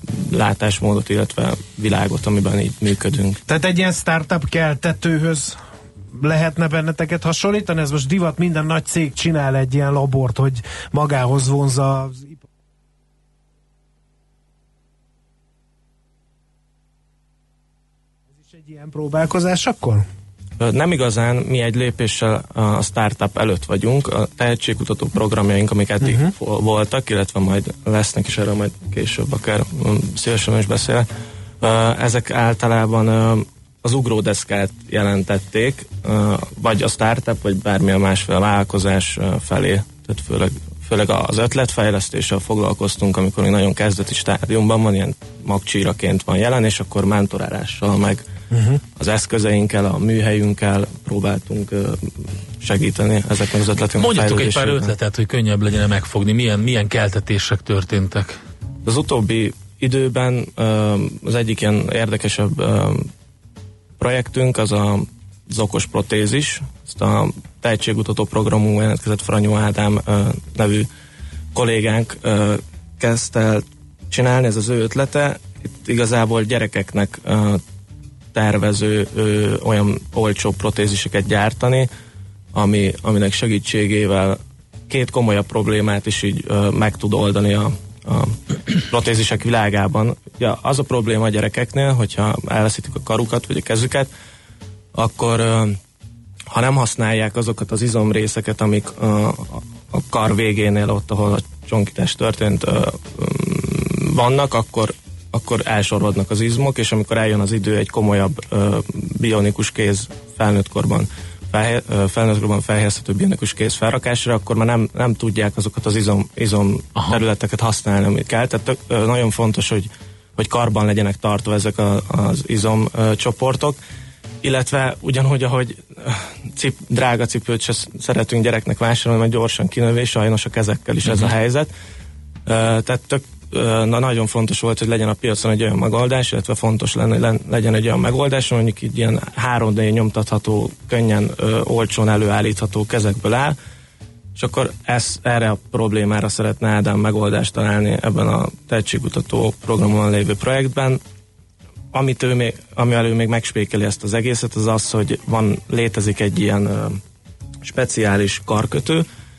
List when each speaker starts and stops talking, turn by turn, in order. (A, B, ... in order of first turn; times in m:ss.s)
0:00.2-0:03.4 A
0:03.5-0:05.6 B
0:06.1-0:12.4 B
0:18.4-0:20.0 B
0:20.6-0:31.1 A
0:26.0-0:26.3 B
0:31.6-0:48.3 A
0:48.5-0:48.8 B
0:49.0-0:54.9 A
0:54.0-0:58.4 C
0:58.8-1:03.1 A
1:04.0-1:10.9 A
1:11.5-1:17.6 A
1:18.3-1:21.9 A
1:22.5-1:28.4 A
1:28.9-1:34.1 A
1:35.0-1:35.8 A
1:36.5-2:03.8 A
2:04.4-2:11.7 A
2:12.5-2:23.6 A
2:24.4-2:31.0 A
2:31.9-2:37.0 A
2:37.6-2:39.1 A